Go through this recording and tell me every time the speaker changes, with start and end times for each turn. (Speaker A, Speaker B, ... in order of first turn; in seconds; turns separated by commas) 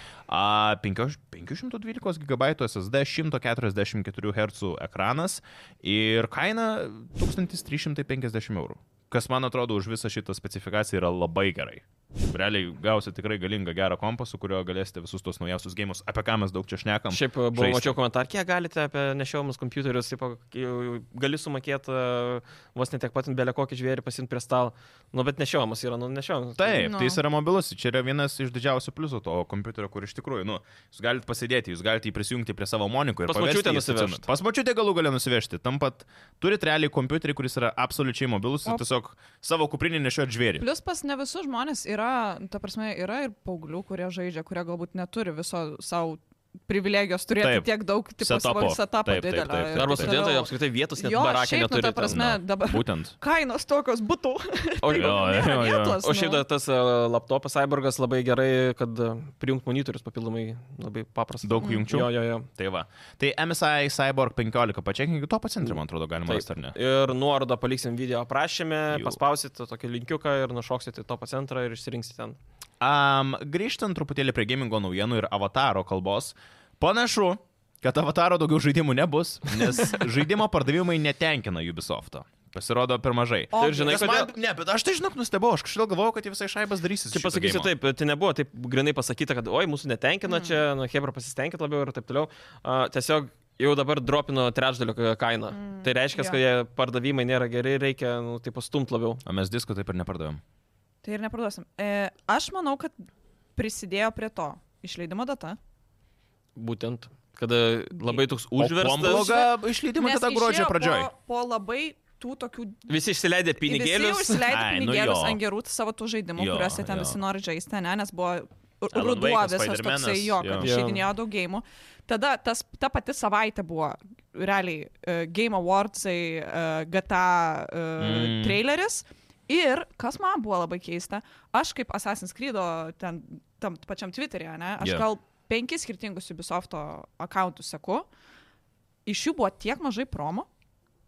Speaker A: 0.3-18.0, Speaker B: 17.1-26.9, Speaker A: 26.6-40.6, Speaker C: 26.8-27.2, Speaker B: 33.3-34.2, Speaker C: 40.6-56.4, Speaker A: 47.4-50.2, Speaker B: 49.7-52.2, Speaker A: 52.1-53.1, Speaker B: 54.8-62.5, Speaker A: 54.9-56.0, Speaker A: 61.4-66.7, Speaker B: 66.2-72.4, Speaker A: 68.9-69.2, Speaker A: 72.8-87.7, Speaker C: 83.5-84.2, Speaker B: 83.6-84.3, Speaker B: 87.1-99.2, Speaker C: 90.3-90.6, Speaker C: 95.5-96.4, Speaker A: 99.2-100.4, Speaker C: 101.0-105.6, Speaker B: 106.5-109.5, Speaker A: 108.5-111.1, Speaker C: 109.0-109.4, Speaker C: 110.0-112.9, Speaker B: 112.9-114.5, Speaker C: 113.6-138.1, Speaker A: 114.5-115.4, Speaker A: 116.4-117.2, Speaker A: 118.9-120.7, Speaker B: 120.6-121.1, Speaker A: 128.0-128.6, Speaker A: 134.8-135.1, Speaker C: 139.1-140.5